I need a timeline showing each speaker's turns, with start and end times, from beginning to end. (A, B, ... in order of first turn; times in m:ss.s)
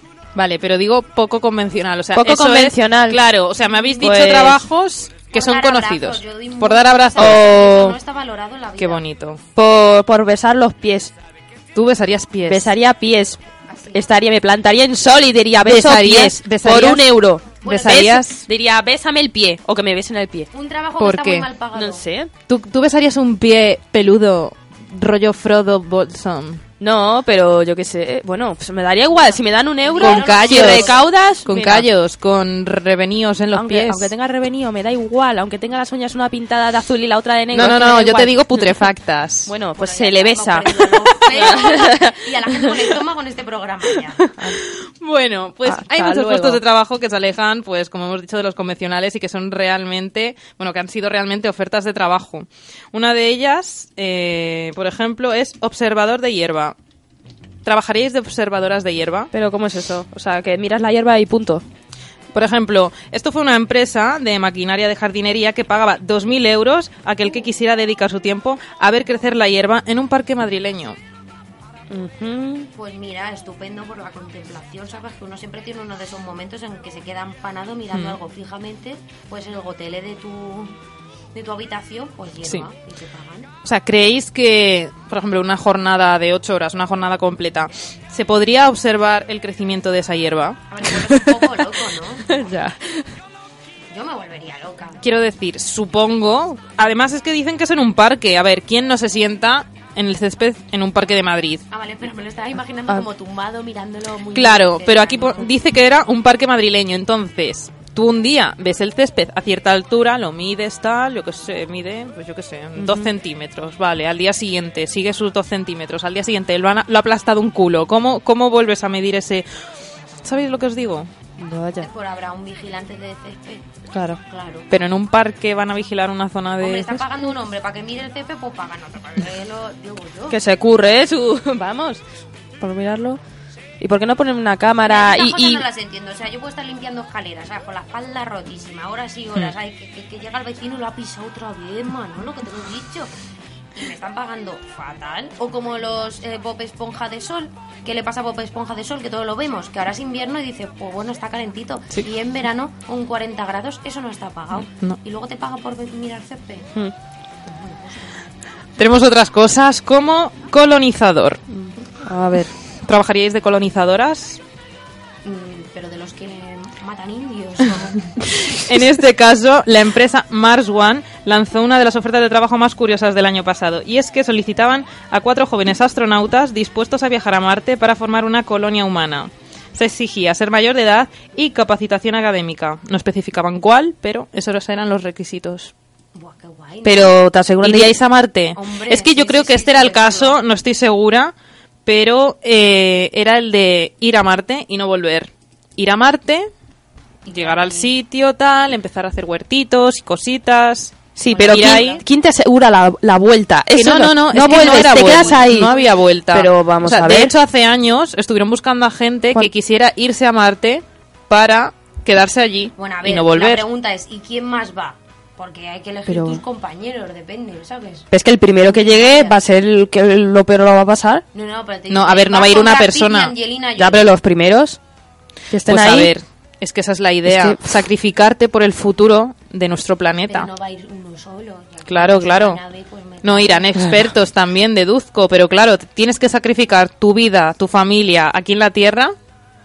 0:00.3-0:07.6 A
0:02.2-0:03.2 B
0:03.6-0:04.2 C
0:04.0-0:04.6 B
0:05.3-0:09.0 C
0:07.2-0:08.0 B
0:08.8-0:09.4 A
0:09.6-0:11.1 B
0:11.7-0:12.7 A
0:12.5-0:13.4 B
0:13.6-0:14.1 C
0:13.9-0:20.5 B
0:15.6-0:17.1 A
0:17.6-0:18.1 C
0:17.6-0:18.4 A
0:20.5-0:22.0 C
0:21.0-0:21.4 A
0:21.7-0:22.3 B
0:22.5-0:26.6 A
0:26.8-0:31.8 B
0:29.1-0:31.1 C
0:30.0-0:34.1 A
0:33.5-0:38.3 B
0:37.5-0:39.5 A
0:39.5-0:42.7 B
0:39.8-0:44.3 C
0:44.3-0:44.6 B
0:44.6-0:56.7 A
0:45.6-0:46.6 B
0:57.6-0:59.3 A
0:59.3-1:01.6 B
1:02.3-1:11.0 A
1:11.9-1:12.7 B
1:12.7-1:20.7 C
1:21.3-1:23.5 C
1:23.6-1:30.6 A
1:30.7-1:32.5 C
1:32.4-1:33.0 B
1:33.9-1:35.0 C
1:35.0-1:41.6 A
1:41.7-1:45.5 C
1:44.3-1:59.5 A
1:52.8-1:53.1 B
2:00.2-2:01.1 A
2:01.4-2:01.8 B
2:01.8-2:03.6 C
2:04.2-2:04.7 C
2:04.7-2:07.0 A
2:06.6-2:10.4 C
2:10.3-2:12.0 B
2:12.6-2:13.2 B
2:13.8-2:15.6 B
2:14.9-2:23.1 C
2:23.7-2:36.7 C
2:34.5-2:35.0 A
2:37.4-2:38.3 C
2:38.8-2:41.4 A
2:42.0-2:42.5 B
2:42.8-2:44.4 A
2:45.2-2:48.2 C
2:48.3-3:05.7 A
3:06.1-3:07.2 C
3:06.8-3:07.9 B
3:07.6-3:11.3 A
3:08.5-3:10.4 C
3:11.8-3:16.5 A
3:17.3-3:17.9 C
3:17.3-3:22.0 A
3:21.2-3:25.7 B
3:21.2-3:22.0 C
3:23.7-3:33.6 A
3:24.4-3:26.0 C
3:26.3-3:27.3 B
3:32.8-3:38.1 C
3:36.1-3:36.4 B
3:38.1-3:41.2 B
3:38.6-3:39.4 C
3:41.3-3:44.1 C
3:41.9-3:43.3 A
3:43.8-3:44.8 B
3:45.5-3:46.1 B
3:45.6-3:50.5 A
3:47.2-3:47.6 B
3:50.2-3:53.9 C
3:51.9-3:52.6 A
3:53.2-3:59.1 A